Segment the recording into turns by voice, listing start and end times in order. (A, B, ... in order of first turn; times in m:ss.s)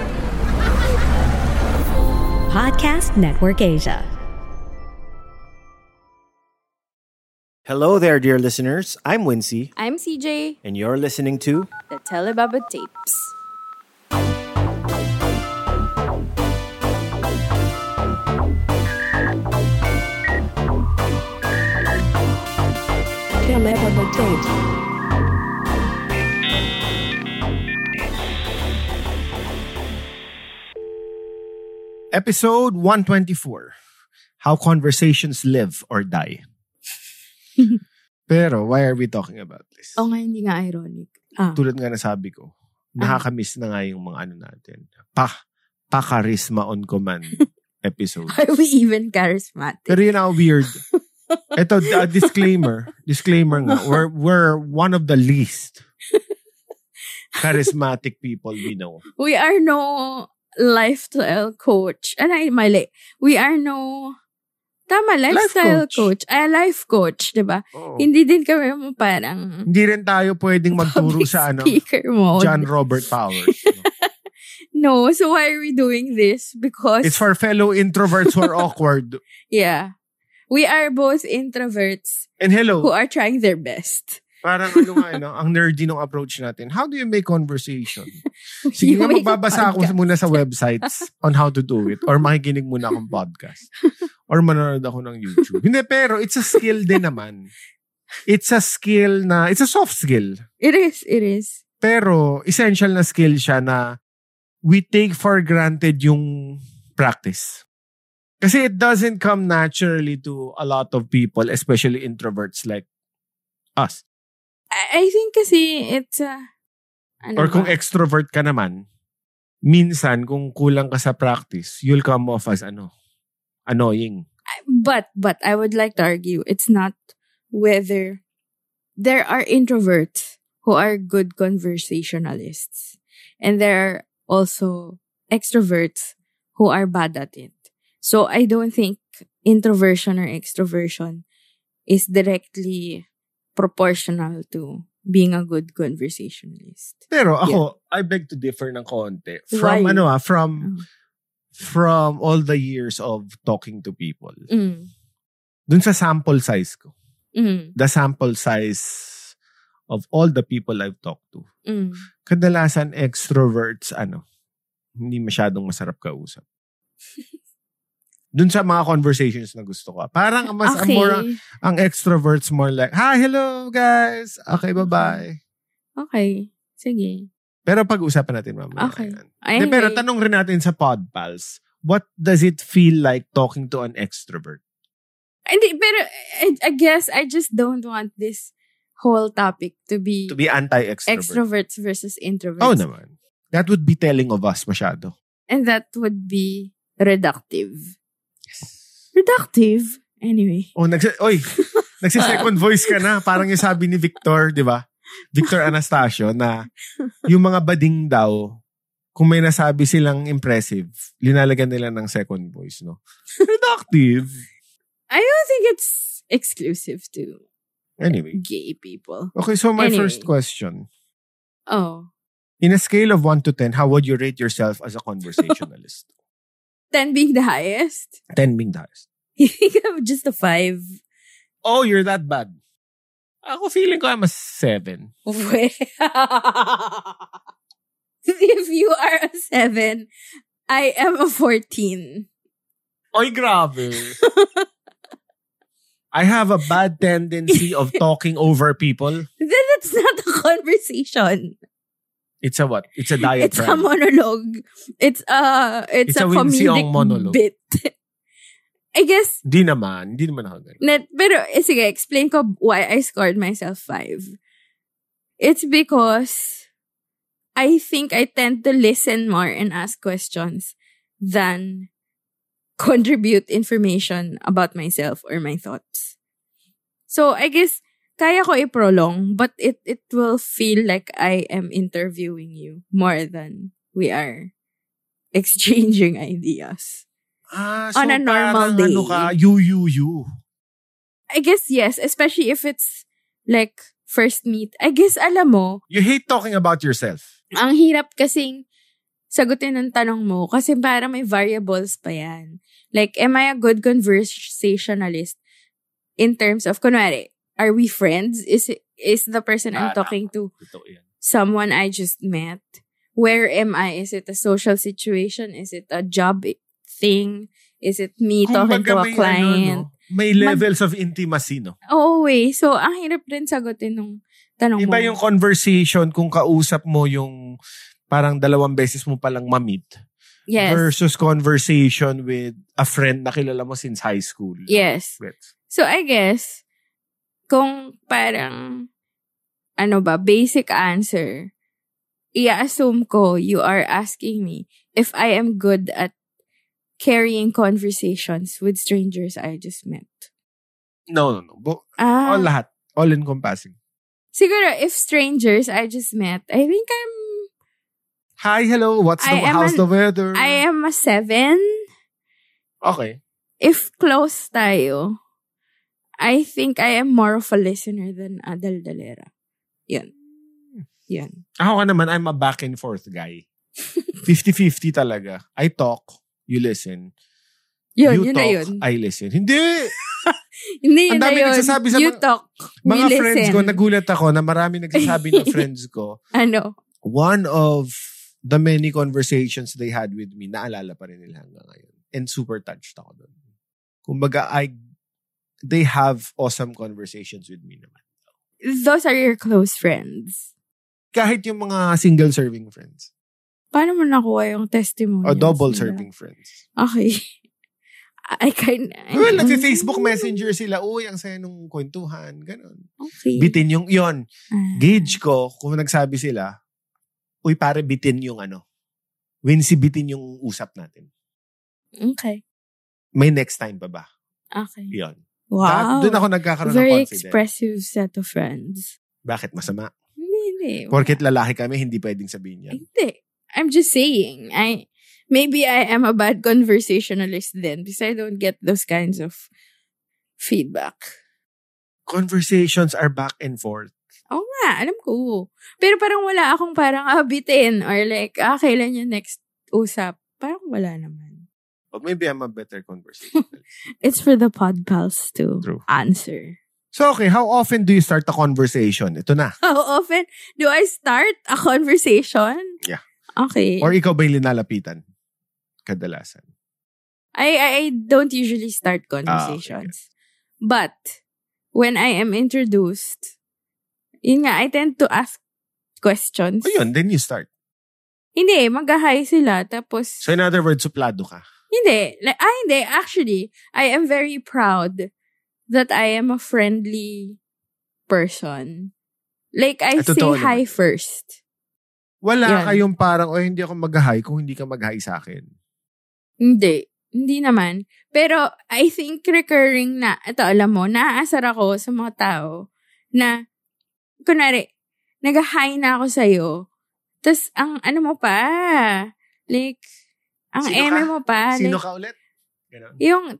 0:02.5-0:04.1 A
0:07.6-0:09.7 B
0:09.8-0:10.6 C
0:10.6-0:11.7 B
0:11.9-0:13.3 C
0:23.4-0:24.5 A
0:32.1-0:33.7 B
0:34.4-0:36.4 B
0:38.3-0:40.0 B
0:40.0-0:41.6 C
0:41.6-0:45.3 B
0:45.9-0:48.4 B
0:48.3-0:50.0 C
0:49.9-0:50.8 B
0:51.6-0:55.8 B
0:51.8-0:52.6 C
0:53.5-0:54.0 C
0:57.4-0:57.7 C
0:57.4-0:59.0 B
0:59.2-1:04.1 C
1:04.9-1:09.7 C
1:05.3-1:06.1 B
1:07.7-1:08.1 B
1:09.7-1:11.8 B
1:10.7-1:12.7 C
1:12.4-1:13.8 B
1:13.5-1:14.1 C
1:14.7-1:17.2 C
1:17.0-1:19.2 B
1:18.3-1:18.6 C
1:19.5-1:19.9 C
1:20.5-1:22.2 C
1:22.4-1:22.9 B
1:22.8-1:24.2 C
1:24.4-1:28.2 B
1:24.7-1:25.1 C
1:28.6-1:30.9 C
1:28.8-1:33.7 B
1:34.3-1:37.5 B
1:38.3-1:40.4 B
1:40.6-1:41.6 C
1:41.8-1:43.8 B
1:44.6-1:47.6 B
1:48.4-1:52.8 B
1:53.8-1:54.0 B
1:54.7-1:56.4 C
1:57.2-1:57.8 C
1:57.4-1:58.8 B
1:59.7-2:02.9 B
2:03.7-2:04.2 B
2:04.5-2:06.9 C
2:07.5-2:08.2 C
2:09.0-2:21.2 C
2:21.9-2:23.0 C
2:23.6-2:27.6 C
2:27.1-2:30.7 B
2:29.5-2:30.1 C
2:31.6-2:34.4 B
2:34.5-2:34.9 C
2:35.7-2:36.9 B
2:37.4-2:37.7 C
2:37.8-2:39.2 B
2:39.9-2:41.4 B
2:41.7-2:42.0 C
2:42.2-2:44.2 B
2:45.0-2:46.4 B
2:48.3-2:55.4 B
2:50.6-2:51.3 C
2:54.8-2:55.2 C
2:56.0-2:57.3 C
2:57.6-3:04.6 B
2:58.8-3:00.0 C
3:05.5-3:10.4 C
3:10.3-3:11.4 B
3:11.1-3:12.8 C
3:12.6-3:15.1 B
3:15.5-3:17.9 C
3:18.5-3:18.8 B
3:19.1-3:20.7 C
3:20.8-3:21.5 B
3:21.6-3:23.5 C
3:22.0-3:26.5 B
3:25.4-3:25.7 C
3:27.3-3:28.6 B
3:29.1-3:34.4 B
3:35.1-3:37.4 C
3:38.0-3:38.4 B
3:38.3-3:40.3 C
3:39.3-3:40.8 B
3:41.7-3:42.1 C
3:42.6-3:46.1 B
3:46.9-3:48.1 C
3:48.3-3:49.0 B
3:49.4-3:50.8 C
3:51.6-3:52.6 B
3:53.4-3:55.1 B
3:55.2-3:57.2 C
3:58.3-4:00.1 C
4:00.7-4:02.3 C
4:03.1-4:04.2 B
4:04.2-4:04.6 C
4:06.1-4:09.3 B
4:07.5-4:08.0 C
4:09.4-4:11.5 C
4:12.4-4:13.8 B
4:13.2-4:17.9 C
4:16.1-4:17.4 B
4:18.9-4:19.4 C
4:19.4-4:20.8 B
4:20.8-4:24.3 C
4:25.4-4:26.6 C
4:27.6-4:31.9 C
4:32.8-4:36.1 C
4:37.1-4:44.5 C
4:45.3-4:47.0 C
4:47.5-4:50.3 B
4:47.9-4:49.3 C
4:51.3-4:55.8 C
4:55.9-4:57.2 B
4:57.6-4:58.6 C
4:59.3-5:05.4 C
5:06.2-5:10.5 C
5:09.7-5:11.0 B
5:11.2-5:19.8 C
5:18.5-5:21.8 B
5:20.4-5:20.6 C
5:21.9-5:25.2 C
5:24.8-5:27.4 B
5:28.1-5:29.9 B
5:30.5-5:30.9 C
5:30.6-5:35.5 B
5:34.7-5:35.2 C
5:35.7-5:36.6 C
5:37.5-5:38.9 C
5:39.8-5:41.5 C
5:42.4-5:46.1 C
5:47.0-5:50.3 C
5:51.1-5:53.7 B
5:52.0-5:52.5 C
5:54.3-5:57.5 C
5:58.4-6:00.6 B
5:59.2-5:59.8 C
6:00.3-6:01.6 C
6:02.8-6:03.2 B
6:03.6-6:05.1 C
6:06.2-6:09.3 C
6:11.1-6:11.3 C
6:11.6-6:13.4 B
6:14.2-6:17.1 B
6:18.0-6:18.8 C
6:18.0-6:19.9 B
6:20.0-6:23.8 C
6:21.1-6:22.2 B
6:22.8-6:26.2 B
6:25.0-6:25.6 C
6:26.3-6:26.7 C
6:27.0-6:33.3 B
6:34.0-6:34.7 B
6:35.7-6:37.9 B
6:38.6-6:40.4 C
6:41.1-6:43.1 B
6:43.7-6:46.0 C
6:45.2-6:46.5 B
6:46.8-6:47.2 C
6:48.3-6:50.4 C
6:49.1-6:52.8 B
6:53.0-6:53.6 C
6:53.4-6:54.2 B
6:54.5-6:55.2 C
6:54.8-6:56.5 B
6:57.4-6:58.6 B
6:59.4-7:01.1 B
7:02.0-7:02.4 C
7:03.2-7:04.0 B
7:04.6-7:04.9 C
7:04.9-7:07.4 B
7:05.5-7:08.9 C
7:09.2-7:09.9 B
7:10.2-7:11.2 C
7:10.9-7:12.8 B
7:12.7-7:19.4 C
7:20.4-7:21.1 C
7:22.1-7:23.9 B
7:24.3-7:31.4 C
7:31.9-7:33.6 B
7:34.0-7:36.6 C
7:36.9-7:39.5 B
7:39.6-7:42.7 C
7:43.4-7:43.9 C
7:43.8-7:45.0 B
7:45.8-7:46.4 B
7:47.4-7:50.0 C
7:49.3-7:49.9 B
7:50.6-7:51.2 C
7:51.7-7:53.3 C
7:54.2-7:55.4 C
7:56.0-7:56.8 C
7:56.6-7:57.5 B
7:58.4-8:00.3 C
8:00.2-8:01.4 B
8:01.7-8:05.0 C
8:05.7-8:07.4 C
8:08.1-8:08.9 C
8:09.6-8:11.4 C
8:10.0-8:10.7 B
8:12.2-8:15.4 B
8:12.4-8:12.8 C
8:16.4-8:22.5 C
8:24.2-8:24.7 C
8:25.2-8:26.5 C
8:27.2-8:28.9 C
8:29.5-8:29.8 C
8:30.5-8:31.8 C
8:30.6-8:32.1 B
8:32.7-8:33.0 B
8:33.0-8:33.3 C